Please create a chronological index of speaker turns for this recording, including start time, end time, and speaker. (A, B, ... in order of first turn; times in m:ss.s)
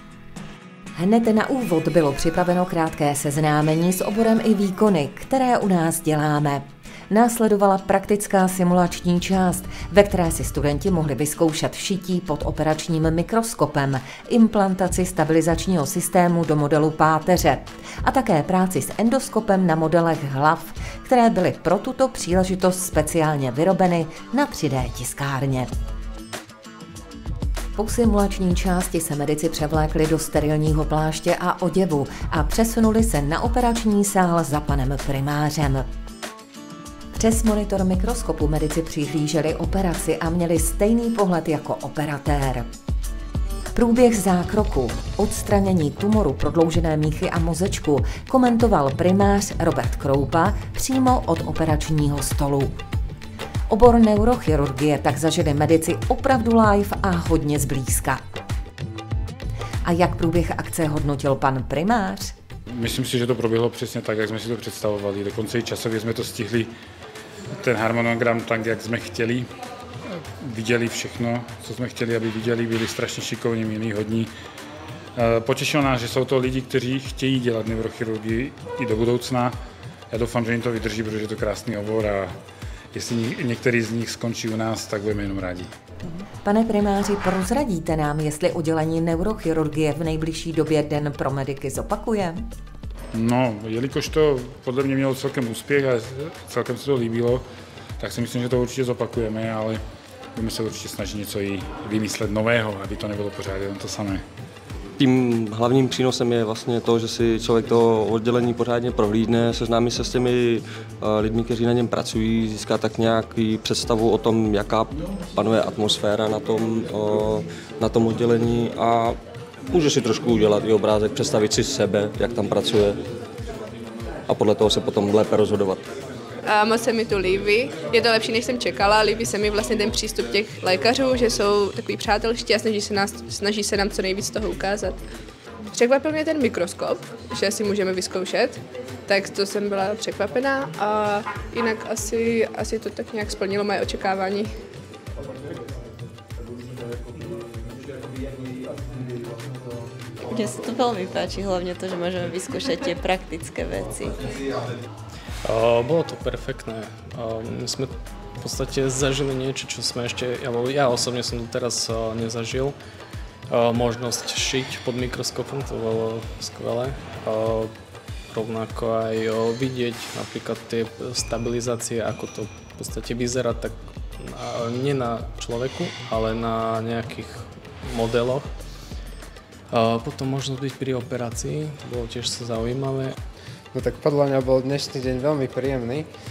0:01.0-0:25.7 A
0:27.8-0:35.9 A
0:37.1-0:42.6 A
0:43.7-0:52.7 A
0:53.7-0:58.2 A
0:59.8-1:02.3 A
1:02.7-1:06.7 B
1:07.5-1:09.5 B
1:10.4-1:14.3 B
1:15.1-1:19.6 B
1:20.1-1:22.4 B
1:22.9-1:25.7 B
1:26.1-1:32.4 A
1:33.1-1:37.4 B
1:38.0-1:39.8 B
1:40.3-1:44.2 B
1:45.0-1:59.2 C
1:59.7-2:03.0 C
2:04.3-2:05.9 C
2:06.5-2:14.9 D
2:15.7-2:18.6 D
2:19.1-2:24.4 D
2:30.3-2:34.2 E
2:35.4-2:42.8 F
2:43.5-2:47.7 F
2:48.3-2:58.5 F
2:59.7-3:03.2 F
3:03.7-3:06.1 G